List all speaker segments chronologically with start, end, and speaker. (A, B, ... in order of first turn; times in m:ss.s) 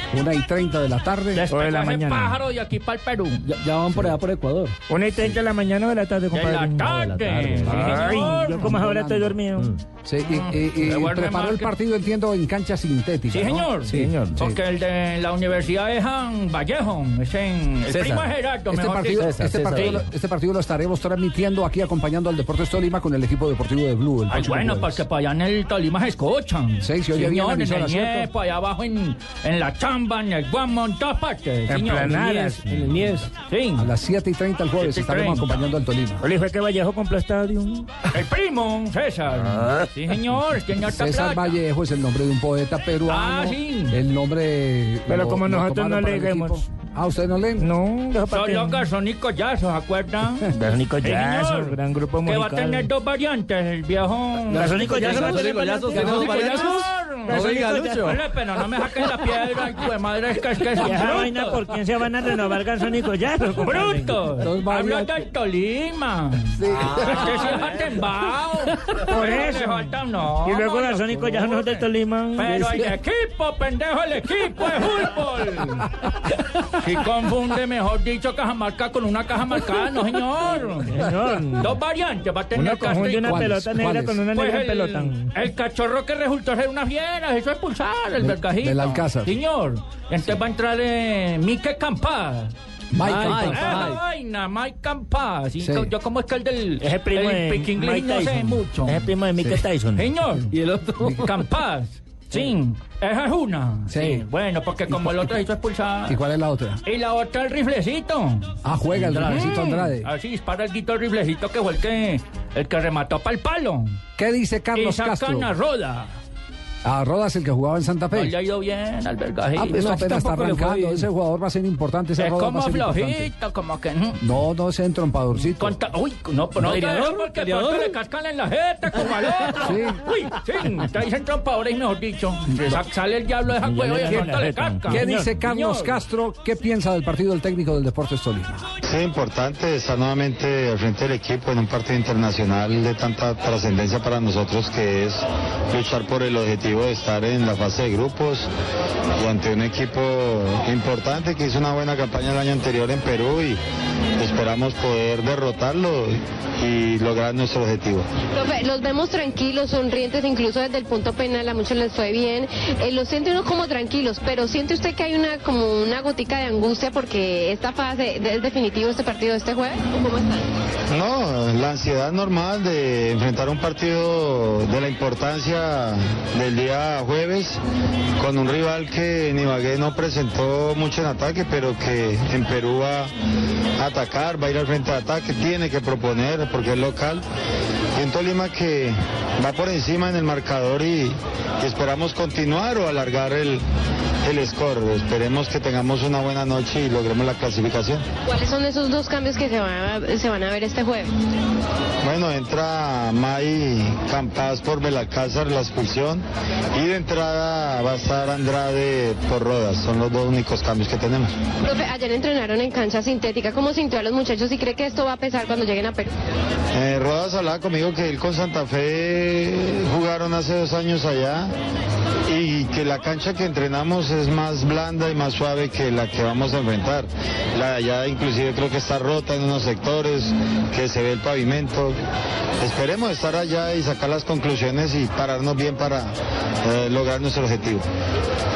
0:00.1-0:01.5 A
0:01.3-0:03.5 B
0:01.5-0:02.4 C
0:03.5-0:04.8 D
0:04.9-0:06.9 C
0:06.3-0:08.7 B
0:06.7-0:08.2 D
0:07.8-0:09.7 C
0:08.5-0:09.4 A
0:10.0-0:14.6 A
0:10.2-0:11.7 B
0:13.3-0:20.0 B
0:13.9-0:14.3 D
0:17.9-0:18.3 D
0:18.7-0:25.0 A
0:19.2-0:20.0 D
0:24.3-0:32.6 B
0:26.8-0:28.3 A
0:31.7-0:33.0 C
0:32.7-0:33.3 D
0:33.4-0:33.9 B
0:33.8-0:36.3 A
0:34.8-0:35.6 B
0:36.2-0:37.9 C
0:38.1-0:41.6 B
0:40.9-0:47.7 A
0:43.1-0:44.0 B
0:45.1-0:46.6 C
0:47.6-0:48.9 C
0:48.3-0:50.5 B
0:50.4-0:52.9 C
0:51.0-1:01.7 B
0:54.5-0:56.5 C
0:54.6-0:58.3 D
0:56.4-0:56.7 A
0:57.3-0:58.1 C
1:00.8-1:04.2 C
1:03.6-1:21.1 B
1:04.4-1:05.3 A
1:06.6-1:07.6 A
1:09.2-1:12.9 C
1:20.9-1:21.8 C
1:21.6-1:23.6 B
1:22.6-1:25.3 C
1:23.2-1:24.2 A
1:24.3-1:32.5 B
1:28.2-1:29.4 A
1:32.9-1:34.0 A
1:33.0-1:34.0 D
1:33.1-1:39.1 B
1:35.6-1:35.9 A
1:36.8-1:40.1 C
1:39.4-1:39.6 A
1:40.0-1:46.2 B
1:40.5-1:41.3 D
1:41.0-1:41.3 A
1:43.9-1:44.2 A
1:44.9-1:45.3 A
1:46.1-1:46.8 A
1:46.8-1:54.0 B
1:48.6-1:50.1 A
1:54.2-1:55.5 A
1:54.7-1:56.1 B
1:56.8-1:58.4 A
1:58.1-2:00.4 B
1:59.6-2:03.3 A
2:00.1-2:01.1 D
2:02.2-2:04.2 B
2:04.2-2:05.8 A
2:05.4-2:16.0 B
2:06.6-2:08.0 D
2:09.6-2:10.0 A
2:13.7-2:15.3 C
2:14.1-2:18.7 A
2:18.8-2:28.5 E
2:29.2-2:33.6 E
2:34.2-2:38.1 E
2:38.3-2:50.5 F
2:50.9-2:57.6 E
2:58.2-3:03.1 E
3:03.8-3:07.2 E
3:08.0-3:13.6 E
3:14.2-3:18.0 E
3:18.3-3:21.1 F
3:22.0-3:31.3 E
3:31.6-3:36.1 F
3:36.7-3:41.5 E
3:42.3-3:52.0 E
3:52.6-3:57.8 E